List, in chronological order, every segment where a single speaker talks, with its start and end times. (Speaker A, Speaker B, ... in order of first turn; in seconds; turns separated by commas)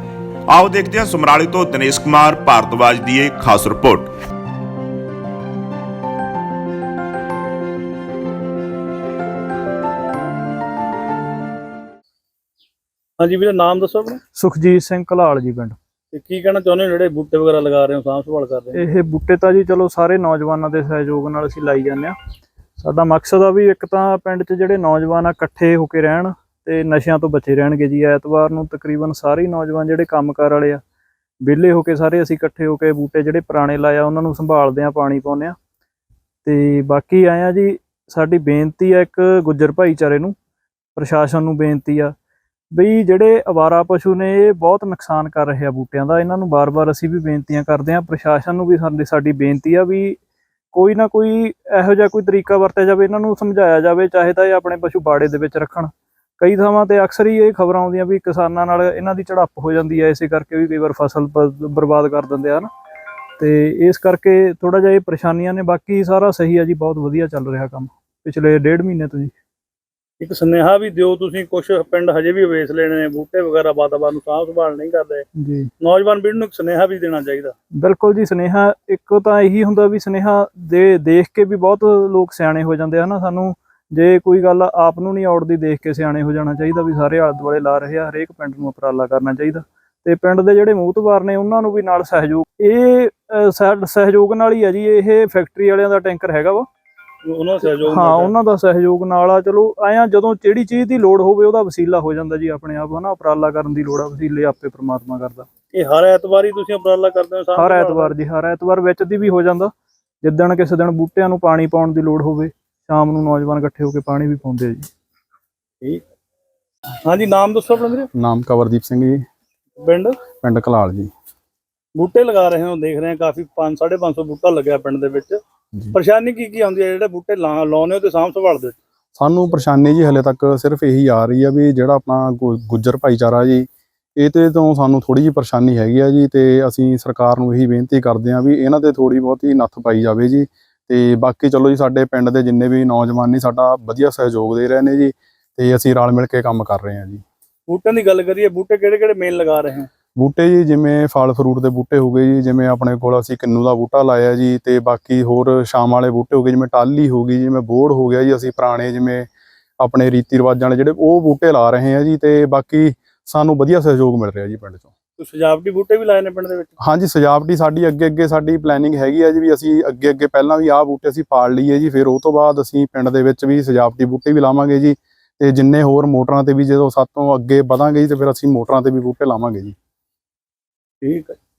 Speaker A: 0.5-4.1, Speaker B: 13.2-14.2, Speaker C: 14.3-15.8, Speaker B: 16.1-18.8, Speaker C: 18.7-22.1, Speaker C: 22.8-30.8, Speaker C: 31.4-35.5, Speaker C: 36.4-40.3, Speaker C: 41.0-42.1, Speaker C: 42.7-50.2, Speaker C: 50.7-62.7, Speaker C: 63.4-69.3, Speaker B: 70.2-75.2, Speaker C: 75.4-75.7, Speaker B: 75.8-77.5, Speaker C: 77.8-96.7, Speaker B: 97.2-98.3, Speaker C: 97.6-105.5, Speaker B: 105.7-108.1, Speaker C: 107.5-109.7, Speaker C: 110.2-114.9, Speaker B: 117.0-118.1, Speaker D: 118.1-119.2, Speaker B: 119.8-120.2, Speaker D: 120.4-121.1, Speaker B: 122.0-125.4, Speaker B: 125.9-128.8, Speaker D: 129.2-147.2, Speaker B: 147.7-149.9, Speaker D: 150.2-159.3, Speaker D: 159.8-164.9, Speaker B: 165.2-166.7, Speaker D: 166.8-179.8, Speaker B: 181.0-181.4